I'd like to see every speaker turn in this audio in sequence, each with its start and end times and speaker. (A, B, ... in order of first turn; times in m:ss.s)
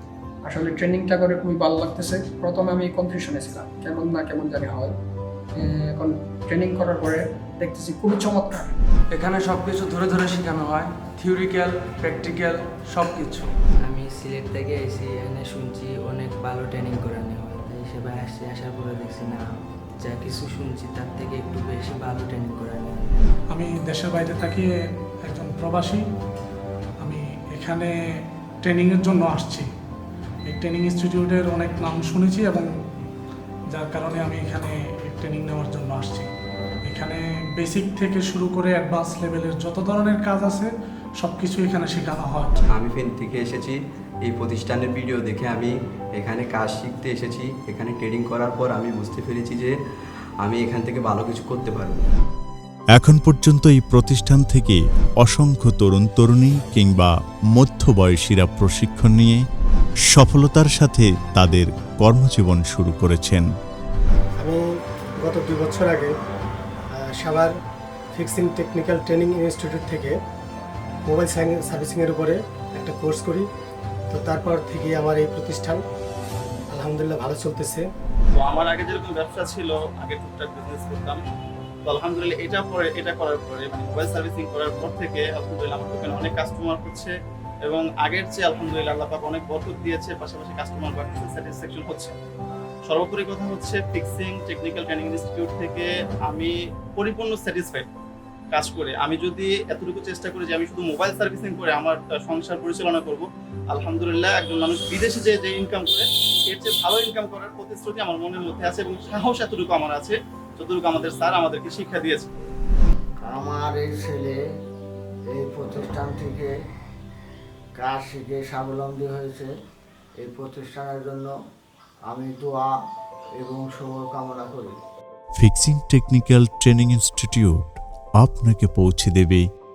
0:00.4-0:04.9 A
0:05.6-0:08.7 A
0:09.1-0:13.5 B
0:13.8-0:19.5 C
0:20.0-0:23.3 C
0:23.5-0:24.7 D
0:25.3-0:26.0 D
0:27.0-0:27.9 D
0:28.6-0:29.7 D
0:30.5-0:32.7 D
0:33.7-0:36.3 D
0:36.9-0:42.6 D
0:42.7-0:49.8 E
0:50.4-0:52.0 E
0:53.0-0:59.4 F
1:00.1-1:03.5 F
1:05.2-1:06.1 G
1:07.2-1:07.5 G
1:08.2-1:10.1 G
1:11.1-1:13.5 G
1:14.1-1:15.8 G
1:16.7-1:17.8 G
1:18.4-1:21.2 H
1:21.9-1:27.1 H
1:27.6-1:32.2 H
1:32.9-1:37.9 H
1:38.5-1:52.3 H
1:53.2-1:54.4 I
1:55.3-1:56.5 I
1:57.8-1:59.5 I
2:00.2-2:01.3 I
2:02.1-2:02.8 I
2:03.4-2:04.7 I
2:05.4-2:07.6 F
2:08.2-2:09.4 F